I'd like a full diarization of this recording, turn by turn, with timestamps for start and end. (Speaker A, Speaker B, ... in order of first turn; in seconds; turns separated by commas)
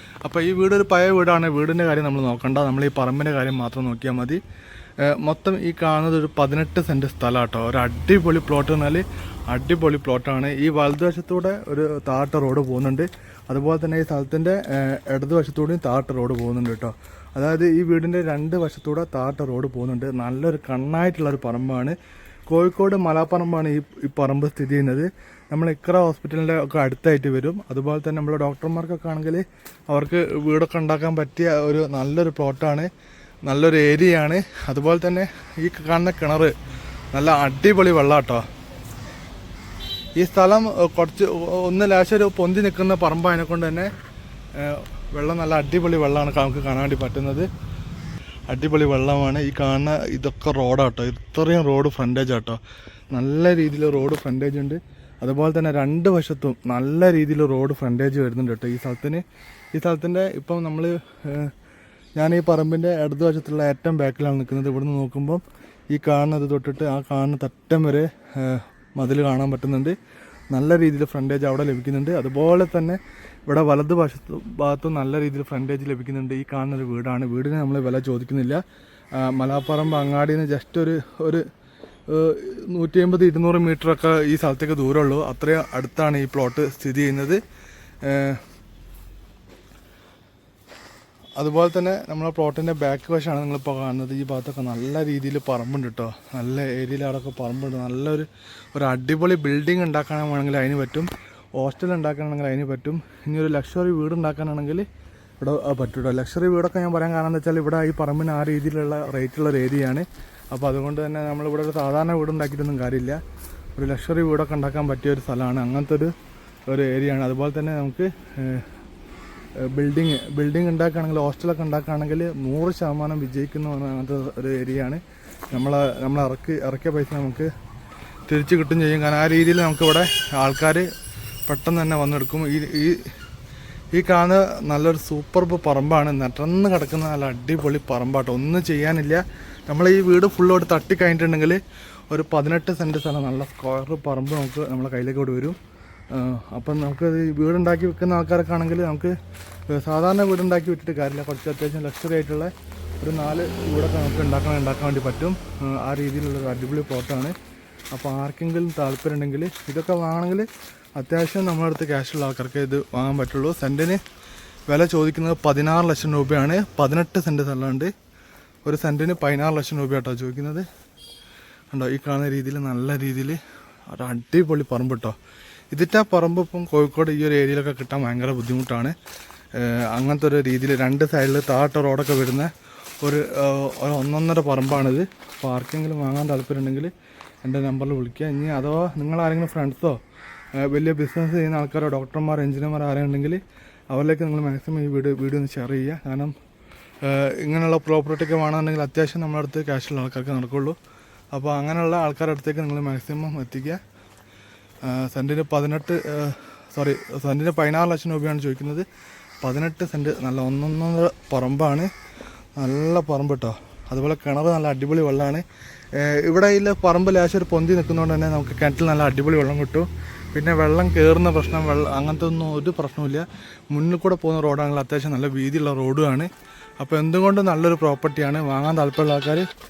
Speaker A: 0.2-4.4, Speaker A: 5.0-22.0, Speaker A: 22.5-32.9, Speaker A: 33.5-36.5, Speaker A: 37.1-38.4, Speaker A: 40.2-43.9, Speaker A: 44.5-47.5, Speaker A: 48.5-52.6, Speaker A: 53.1-59.2, Speaker A: 59.7-61.5, Speaker A: 62.2-70.0, Speaker A: 70.5-78.6, Speaker A: 79.2-81.4, Speaker A: 82.1-87.4, Speaker A: 88.0-88.4, Speaker A: 91.4-104.9, Speaker A: 105.4-113.2, Speaker A: 113.8-116.1, Speaker A: 116.7-118.7, Speaker A: 119.6-127.5, Speaker A: 128.3-130.9, Speaker A: 131.5-133.1, Speaker A: 133.9-145.6, Speaker A: 146.1-149.2, Speaker A: 149.7-157.3, Speaker A: 157.9-164.0, Speaker A: 164.7-167.9, Speaker A: 168.7-170.7, Speaker A: 171.7-175.2, Speaker A: 175.7-178.9, Speaker A: 179.6-182.5, Speaker A: 183.0-186.9, Speaker A: 187.4-190.0, Speaker A: 190.6-196.3, Speaker A: 197.0-200.8, Speaker A: 201.3-203.8, Speaker A: 204.8-208.9, Speaker A: 209.4-211.9, Speaker A: 212.6-229.5